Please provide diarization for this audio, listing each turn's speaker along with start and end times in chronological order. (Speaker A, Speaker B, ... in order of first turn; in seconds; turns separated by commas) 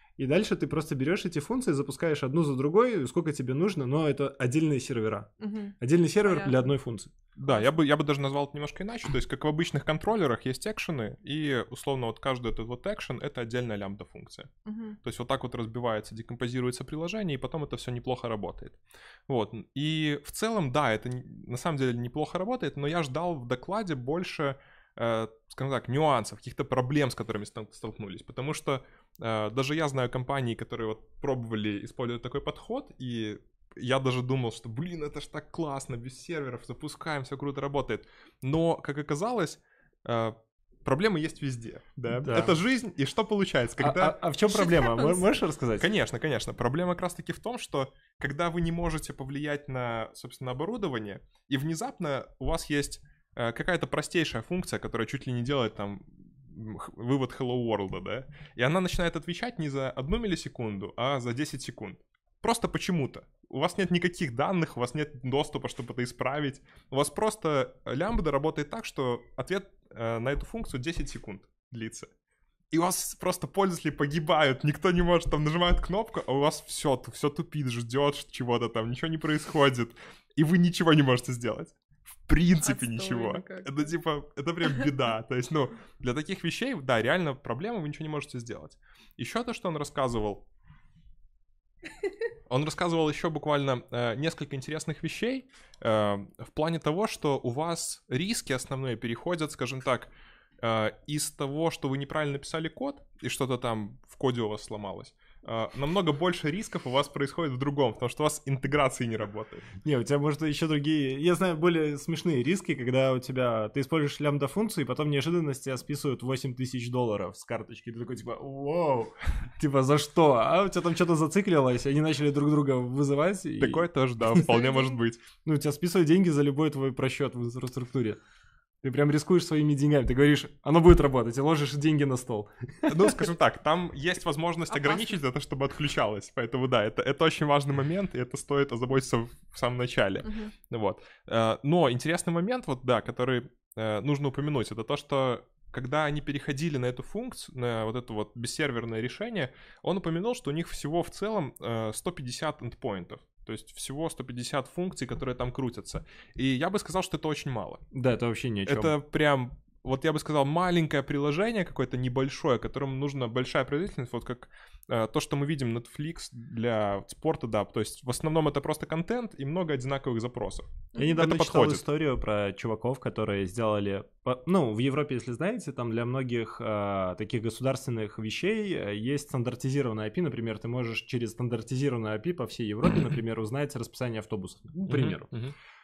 Speaker A: 0.2-7.1, Speaker B: 5.4-6.6, Speaker C: 7.4-14.5, Speaker B: 14.7-15.0, Speaker C: 15.0-44.1, Speaker A: 42.1-42.6, Speaker A: 43.8-45.9, Speaker B: 44.5-45.3, Speaker C: 45.8-72.1, Speaker C: 72.7-81.8, Speaker C: 82.3-90.4, Speaker B: 82.6-83.9, Speaker C: 92.5-109.7, Speaker A: 109.8-123.9, Speaker C: 123.6-125.2, Speaker B: 124.4-125.0, Speaker A: 125.4-128.2, Speaker A: 128.8-133.2, Speaker C: 132.9-157.8, Speaker B: 134.7-135.2, Speaker B: 140.2-140.5, Speaker A: 157.9-158.9, Speaker C: 158.7-171.8, Speaker A: 171.0-185.3, Speaker C: 184.9-185.5